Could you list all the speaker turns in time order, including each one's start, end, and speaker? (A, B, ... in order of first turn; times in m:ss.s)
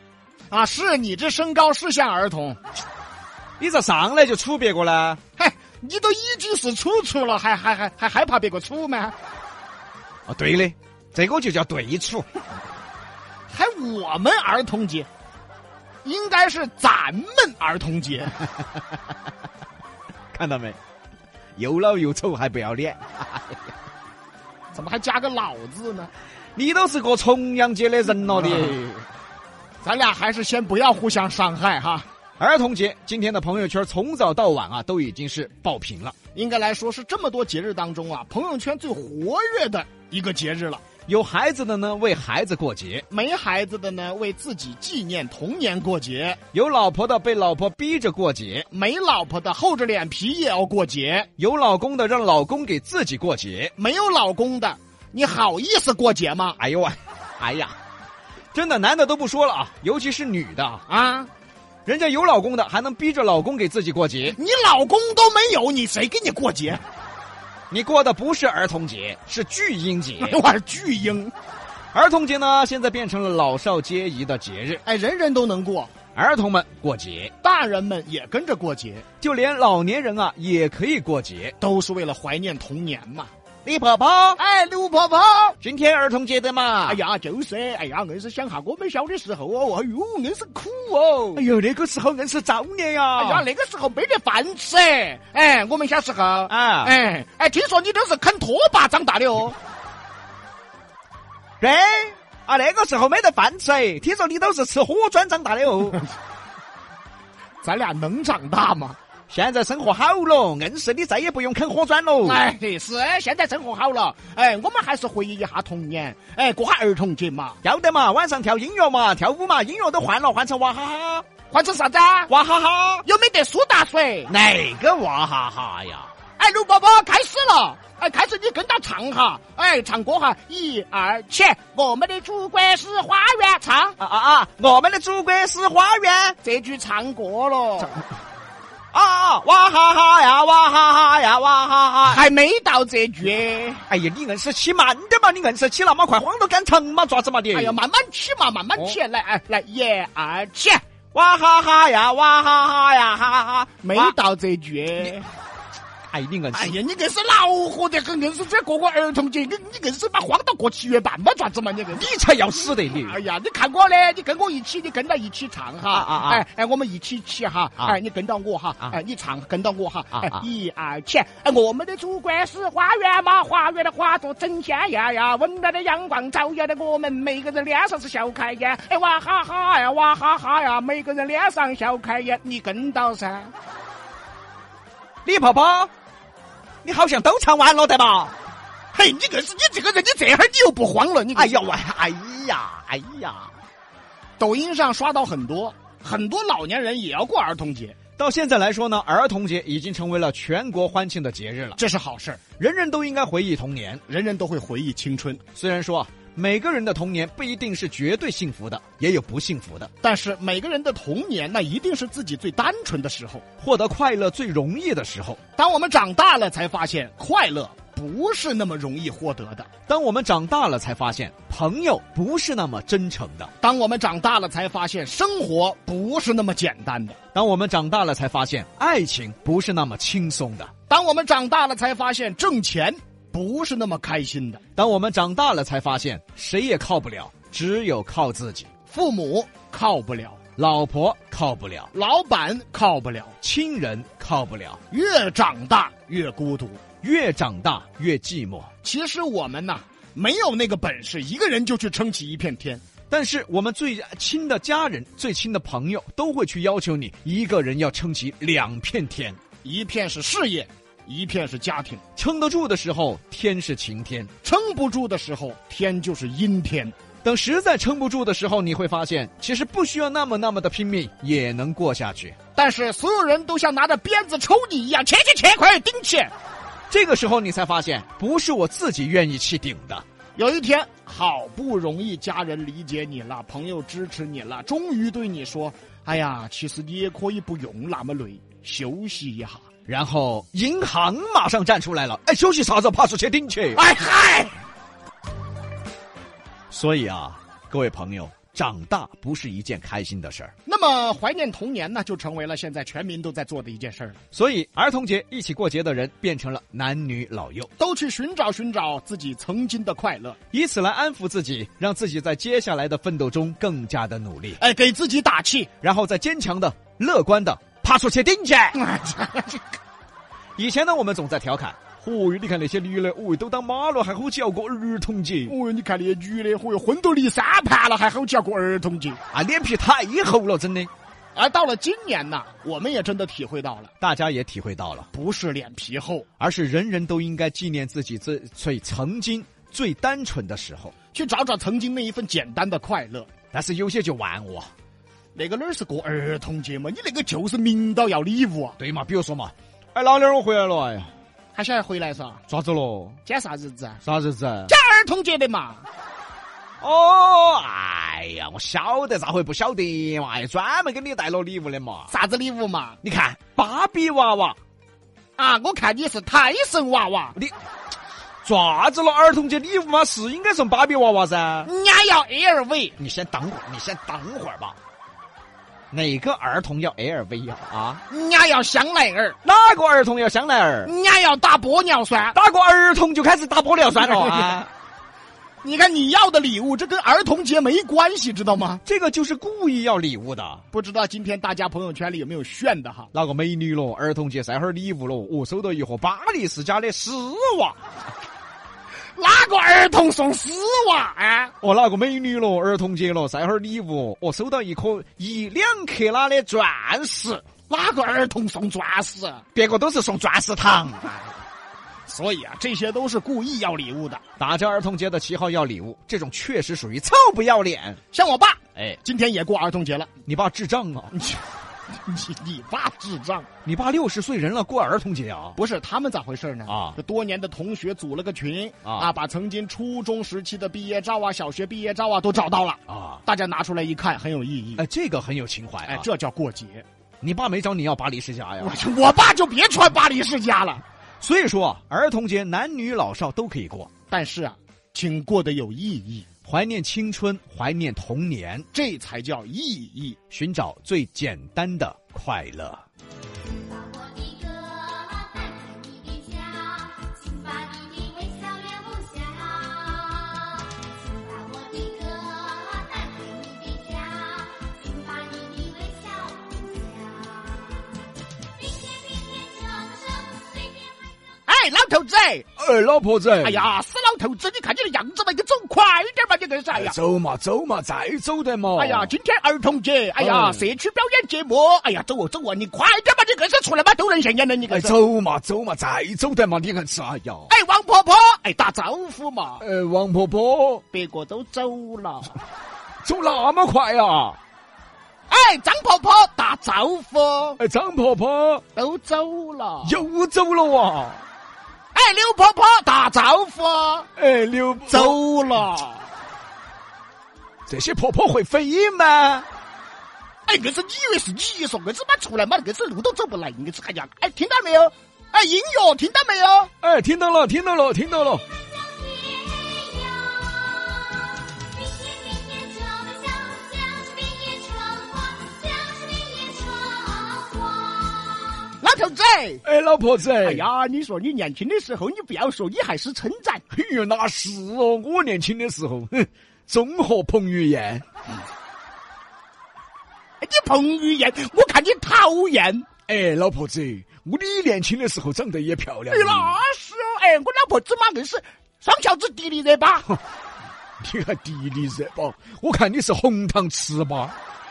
0:00.5-0:02.6 A
0:03.6-0:05.2 B
0:05.4-0:09.1 A
0:10.3-0:12.3 B
0:13.5-0:15.1 A
0:16.0-0:18.4 A
0:20.3-0:20.8 B
0:21.6-0:23.6 B
0:24.7-0:26.1 A
0:26.6-0:29.0 B
0:29.8-0:32.1 A
0:32.4-0:36.2 B
0:36.3-0:40.8 A
0:41.0-0:43.0 B
0:43.1-0:46.4 A
0:46.5-0:48.7 B
0:48.7-0:51.3 A
0:51.4-0:53.7 B
0:53.8-0:56.6 A
0:56.6-0:57.8 B
0:58.5-1:00.9 B
1:00.9-1:01.3 A
1:01.9-1:04.4 B
1:04.3-1:06.8 A
1:07.7-1:10.4 B
1:10.2-1:11.3 A
1:11.9-1:14.8 B
1:14.8-1:15.9 A
1:16.2-1:17.3 B
1:17.4-1:19.0 A
1:19.2-1:21.6 B
1:21.6-1:23.3 A
1:23.6-1:24.4 B
1:24.4-1:25.6 A
1:25.6-1:27.0 B
1:26.9-1:31.4 A
1:31.4-1:33.4 B
1:33.1-1:39.6 A
1:36.5-1:37.0 B
1:41.6-1:46.0 B
1:47.6-1:49.0 A
1:49.3-1:52.4 B
1:52.2-1:57.6 A
1:57.6-2:01.3 B
2:01.5-2:02.3 A
2:02.3-2:03.0 B
2:03.0-2:04.3 A
2:04.3-2:06.1 B
2:06.4-2:14.0 A
2:14.0-2:16.4 B
2:16.4-2:18.0 A
2:18.9-2:22.2 B
2:22.1-2:23.8 A
2:23.9-2:27.8 B
2:27.5-2:30.8 A
2:31.1-2:34.1 B
2:33.8-2:35.2 A
2:36.1-2:36.8 B
2:36.5-3:03.5 A
2:41.9-2:43.2 B
2:45.9-2:46.4 B
2:50.1-2:50.4 B
3:05.2-3:05.9 B
3:06.8-3:08.3 B
3:08.9-3:11.7 A
3:11.3-3:13.5 B
3:14.4-3:18.0 A
3:18.2-3:21.8 B
3:21.8-3:22.4 A
3:22.6-3:24.0 B
3:24.1-3:25.4 A
3:25.5-3:29.9 B
3:30.0-3:33.4 A
3:33.6-3:35.4 B
3:35.6-3:39.7 A
3:39.9-3:43.5 B
3:43.6-3:47.2 A
3:47.3-3:50.7 B
3:50.9-3:54.6 A
3:54.7-3:58.7 B
3:58.9-4:00.4 A
4:00.6-4:01.9 B
4:01.9-4:03.3 A
4:03.4-4:04.8 B
4:04.9-4:06.8 A
4:07.0-4:08.7 B
4:08.8-4:12.8 A
4:13.1-4:19.4 B
4:19.6-4:22.0 A
4:22.2-4:24.3 B
4:24.4-4:26.9 A
4:27.2-4:32.4 B
4:32.6-4:36.3 A
4:36.9-4:40.0 B
4:40.4-4:49.6 A
4:49.9-4:53.8 B
4:53.8-4:54.6 A
4:56.7-5:00.5 B
5:00.6-5:04.2 A
5:04.3-5:07.7 B
5:07.8-5:10.4 A
5:10.5-5:14.6 B
5:14.6-5:15.7 A
5:15.8-5:18.8 B
5:18.8-5:19.6 A
5:20.6-5:25.5 B
5:25.5-5:29.2 A
5:29.3-5:30.9 B
5:31.3-5:33.9 A
5:34.0-5:35.1 B
5:35.1-5:36.2 A
5:36.4-5:40.9 B
5:41.1-5:43.3 A
5:43.5-5:44.7 B
5:45.3-5:48.8 A
5:48.8-5:51.1 B
5:51.5-5:52.4 A
5:52.5-5:53.2 B
5:53.2-5:54.0 A
5:54.0-5:54.7 B
5:54.7-5:55.8 A
5:56.8-6:02.1 B
6:02.1-6:03.0 A
6:03.0-6:04.6 B
6:05.4-6:07.4 A
6:08.4-6:11.7 B
6:11.6-6:13.0 A
6:13.0-6:14.8 B
6:15.9-6:18.0 B
6:18.1-6:19.4 A
6:19.4-6:20.9 B
6:20.8-6:22.4 A
6:22.3-6:24.7 B
6:24.0-6:24.6 A
6:25.6-6:28.8 A
6:28.8-6:30.6 B
6:30.7-6:33.1 A
6:33.1-6:37.8 B
6:39.2-6:41.5 A
6:41.6-6:47.4 B
6:47.7-6:49.4 A
6:49.5-6:51.4 B
6:52.1-6:54.2 A
6:54.4-6:58.0 B
6:58.1-7:00.1 A
7:00.2-7:01.2 B
7:01.1-7:01.4 A
7:02.0-7:03.5 A
7:03.6-7:05.6 B
7:05.6-7:14.8 A
7:06.7-7:07.0 B
7:12.9-7:13.2 B
7:14.8-7:16.0 B
7:15.8-7:16.8 A
7:17.2-7:18.8 B
7:18.6-7:20.8 A
7:21.2-7:23.9 B
7:24.1-7:26.2 A
7:26.4-7:28.7 B
7:28.7-7:30.2 A
7:30.3-7:32.8 B
7:33.7-7:47.8 C
7:49.1-7:50.7 C
7:51.5-7:52.5 A
7:52.6-7:53.7 B
7:53.4-7:57.0 A
7:56.7-7:59.1 B
7:58.7-8:05.0 A
8:00.2-8:00.6 B
8:04.7-8:07.5 B
8:07.5-8:09.6 A
8:09.6-8:10.8 B
8:10.9-8:12.4 A
8:13.0-8:14.4 B
8:15.3-8:17.6 A
8:17.6-8:18.6 B
8:18.8-8:20.0 A
8:19.8-8:21.2 B
8:21.9-8:24.1 A
8:24.2-8:25.2 B
8:24.9-8:26.1 A
8:27.7-8:29.5 B
8:30.5-8:36.7 A
8:36.8-8:38.4 B
8:39.2-8:40.6 C
8:42.1-8:48.6 C
8:48.8-8:49.6 A
8:49.6-8:50.6 B
8:50.4-8:53.6 A
8:53.7-8:58.0 B
9:00.4-9:02.9 A
9:03.1-9:06.5 B
9:06.1-9:10.1 A
9:11.0-9:14.4 B